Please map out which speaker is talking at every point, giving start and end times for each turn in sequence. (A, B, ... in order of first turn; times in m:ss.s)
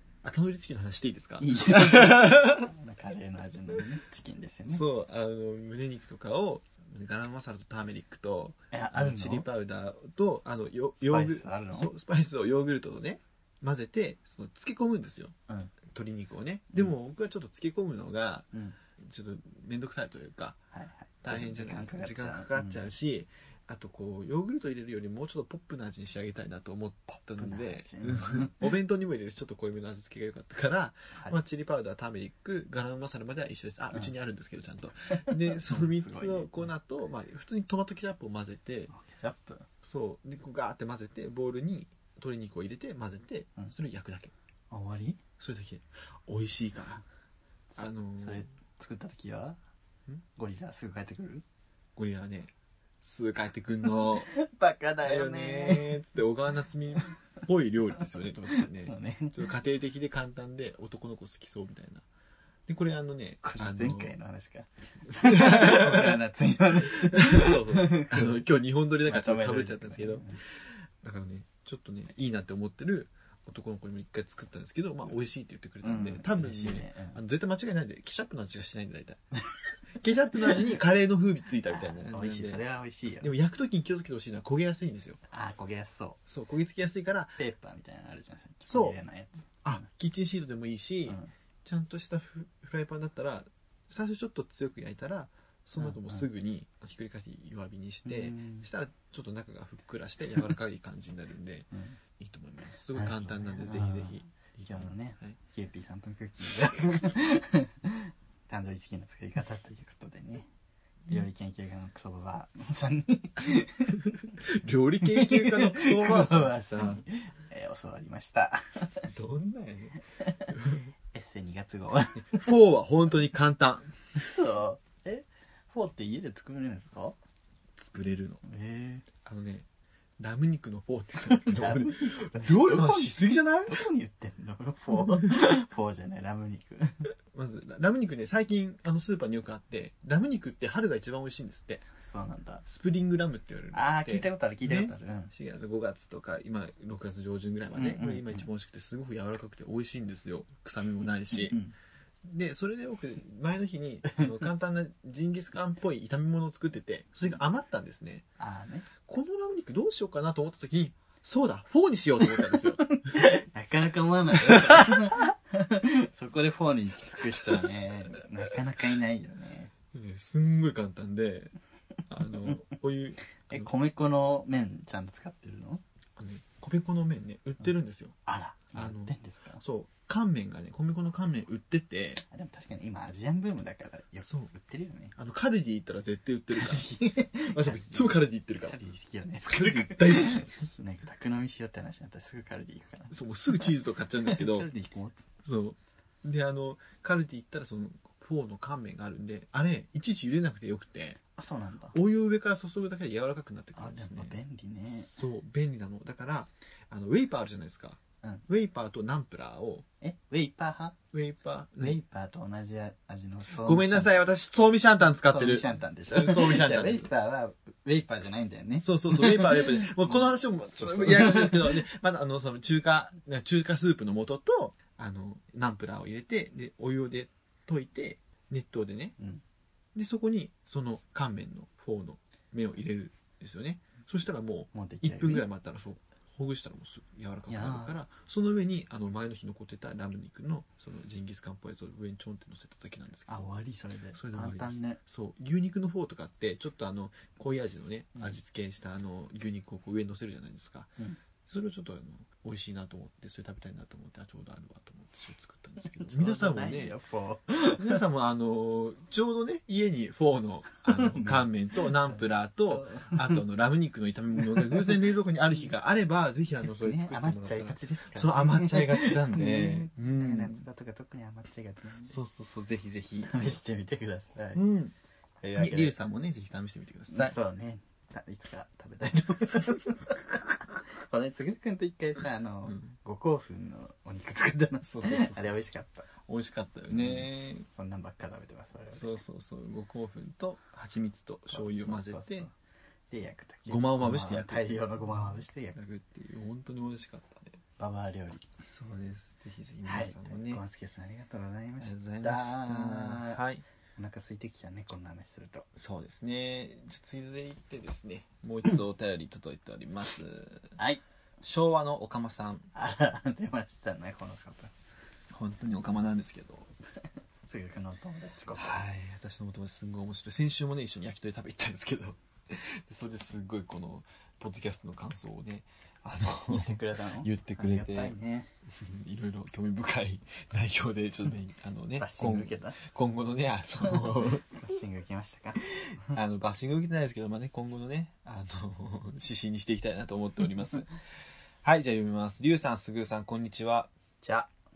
0:00.2-0:02.7 A
0:01.4-0:04.8 B
0:04.7-0:15.3 A
0:08.7-0:09.5 B
0:11.0-0:11.9 B
0:15.5-0:15.7 B
0:15.8-0:20.6 A
0:20.7-0:22.8 B
0:21.2-0:38.9 A
0:27.4-0:28.6 B
0:35.3-0:36.7 B
0:38.9-0:39.7 B
0:39.8-0:44.3 A
0:44.7-0:45.2 B
0:45.4-0:47.0 A
0:47.7-0:49.6 B
0:47.8-0:48.4 A
0:50.4-0:51.4 B
0:52.0-0:54.3 A
0:54.3-0:56.0 B
0:55.0-1:02.0 A
0:58.8-0:59.4 B
1:02.7-1:04.1 A
1:03.4-1:08.3 B
1:05.1-1:06.2 A
1:07.0-1:19.2 A
1:09.0-1:10.4 B
1:15.8-1:17.2 B
1:19.9-1:22.6 A
1:21.7-1:23.3 B
1:23.2-1:25.2 A
1:25.3-1:26.2 B
1:26.3-1:27.4 A
1:27.4-1:29.6 B
1:28.7-1:29.0 A
1:29.6-1:45.4 A
1:35.8-1:36.3 B
1:38.0-1:38.7 B
1:41.7-1:42.0 B
1:42.9-1:50.5 B
1:51.1-1:54.1 B
1:54.4-1:57.0 A
1:55.0-1:59.1 B
1:59.1-2:00.9 A
2:01.1-2:02.4 B
2:02.4-2:03.9 A
2:04.1-2:07.2 B
2:07.8-2:08.4 A
2:08.4-2:09.0 B
2:09.2-2:09.7 A
2:10.2-2:13.8 A
2:11.3-2:16.9 B
2:17.3-2:21.8 A
2:22.0-2:22.6 B
2:22.6-2:31.6 A
2:23.7-2:25.3 B
2:27.7-2:28.5 B
2:31.4-2:31.7 B
2:32.2-2:38.2 A
2:38.4-2:38.9 B
2:39.0-2:42.8 A
2:42.8-2:49.7 B
2:44.3-2:45.2 A
2:49.9-2:51.5 A
2:52.1-2:53.7 A
2:53.5-2:55.8 B
2:56.2-2:58.2 A
2:58.2-2:59.6 B
2:58.7-3:02.2 A
3:02.3-3:05.2 B
3:04.2-3:04.5 A
3:05.2-3:06.9 A
3:06.5-3:13.7 B
3:07.5-3:08.8 A
3:09.4-3:10.7 A
3:13.1-3:14.7 A
3:14.2-3:15.2 B
3:15.4-3:21.2 A
3:21.3-3:22.0 B
3:21.9-3:24.3 A
3:23.8-3:25.1 B
3:24.9-3:29.8 A
3:30.0-3:31.0 B
3:31.1-3:32.0 A
3:31.8-3:34.2 B
3:33.6-3:37.1 A
3:35.2-3:41.8 B
3:38.8-3:49.2 A
3:49.9-4:03.5 A
3:54.7-3:55.4 B
3:57.5-3:57.9 B
4:03.3-4:05.0 B
4:04.1-4:10.9 A
4:11.5-4:16.9 A
4:16.0-4:18.0 B
4:17.8-4:30.6 A
4:20.8-4:23.4 B
4:24.5-4:25.0 B
4:26.7-4:32.2 B
4:32.1-4:33.6 A
4:33.2-4:34.6 B
4:34.5-4:34.9 A
4:35.4-4:35.9 B
4:35.6-4:37.4 A
4:37.1-4:46.1 B
4:42.6-4:42.9 A
4:44.8-4:45.6 A
4:46.2-4:47.7 A
4:46.9-4:49.2 B
4:48.9-4:52.5 A
4:51.5-4:52.5 B
4:53.1-4:55.8 B
4:53.7-4:57.6 A
4:57.8-4:58.4 B
4:58.6-5:00.6 A
4:59.8-5:03.4 B
5:01.8-5:03.6 A
5:04.0-5:05.7 B
5:05.8-5:10.8 A
5:11.4-5:12.7 A
5:12.7-5:14.7 B
5:15.3-5:16.7 A
5:17.4-5:18.8 B
5:18.6-5:28.2 A
5:26.5-5:28.5 B
5:28.7-5:34.4 A
5:32.0-5:32.8 B
5:33.9-5:36.1 B
5:36.0-5:40.9 A
5:41.6-5:43.9 A
5:44.2-5:44.5 B